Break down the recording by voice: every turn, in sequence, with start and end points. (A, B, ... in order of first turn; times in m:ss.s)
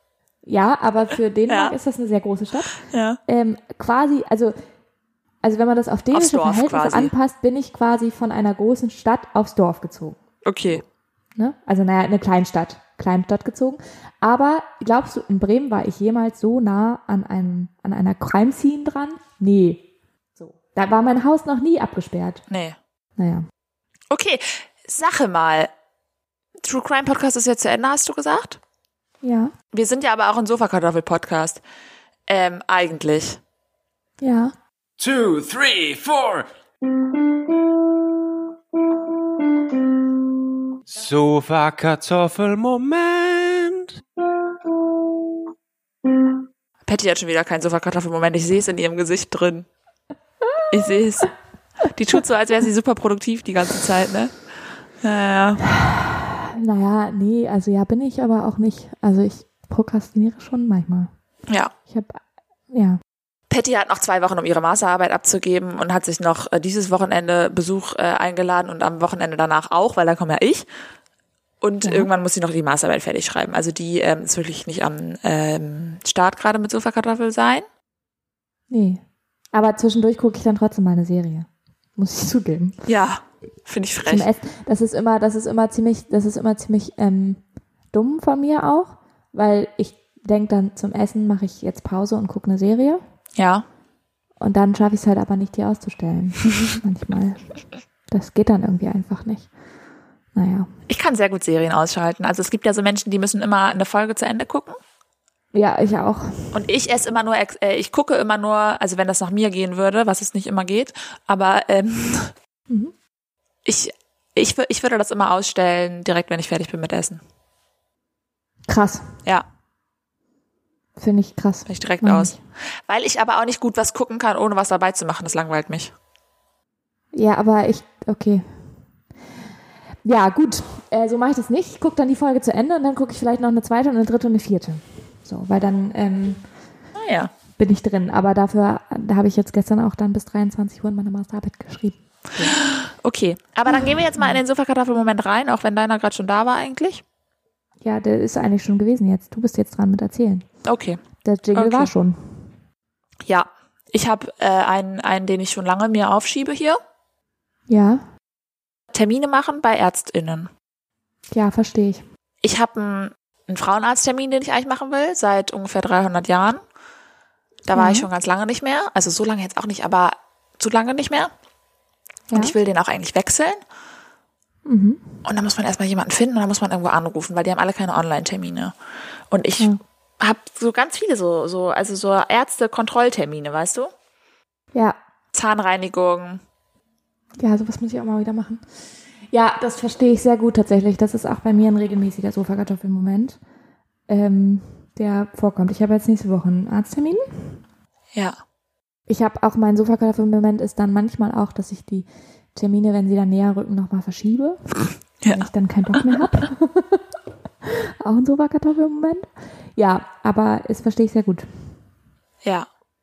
0:00.4-0:04.5 A
0:01.5-0:01.8 B
0:02.8-0:03.2 B
0:05.4-0:10.2 A
0:06.1-0:07.1 B
0:10.4-0:10.8 B
0:11.4-0:19.8 A
0:20.4-0:22.4 A
0:22.5-0:22.8 B
0:23.2-0:23.4 A
0:24.1-0:25.7 B
0:26.6-0:28.6 B
0:29.2-0:29.5 A
0:29.7-0:31.6 B
0:32.3-0:33.4 B
0:34.2-0:34.5 A
0:35.0-0:36.5 C
0:37.1-0:37.6 C
0:40.9-0:44.0 C
0:46.8-0:49.7 B
0:50.7-0:51.3 B
0:51.9-0:54.4 B
0:55.0-0:55.6 B
0:55.6-1:01.1 A
1:01.9-1:03.0 A
1:03.5-1:10.7 B
1:11.6-1:17.6 B
1:11.8-1:12.1 A
1:18.7-1:19.0 A
1:19.5-1:22.8 A
1:22.8-1:24.3 B
1:24.0-1:27.4 A
1:27.9-1:33.0 A
1:33.4-1:33.6 B
1:34.4-1:37.5 A
1:38.1-1:39.5 A
1:40.3-1:40.7 A
1:40.9-1:44.8 B
1:45.5-1:46.6 A
1:46.5-1:52.3 B
1:53.6-1:57.2 B
1:58.7-1:59.2 A
2:01.0-2:02.4 A
2:01.7-2:05.9 B
2:07.1-2:08.7 A
2:10.0-2:16.4 A
2:16.9-2:17.3 B
2:17.6-2:22.6 A
2:22.5-2:27.0 B
2:23.7-2:24.4 A
2:27.8-2:30.4 A
2:30.6-2:31.0 B
2:31.2-2:32.4 A
2:31.5-2:31.9 B
2:33.2-2:36.8 B
2:37.7-2:38.0 A
2:38.9-2:40.5 B
2:41.3-2:42.0 A
2:42.4-2:46.6 B
2:47.6-2:51.3 B
2:47.7-2:48.1 A
2:52.3-2:53.6 B
2:54.6-2:55.0 A
2:55.2-2:58.7 B
2:59.3-3:03.9 B
3:05.3-3:06.4 B
3:07.4-3:08.6 A
3:09.3-3:13.4 A
3:14.1-3:17.6 A
3:19.1-3:24.8 A
3:25.2-3:26.2 B
3:25.3-3:27.0 A
3:27.6-3:31.4 A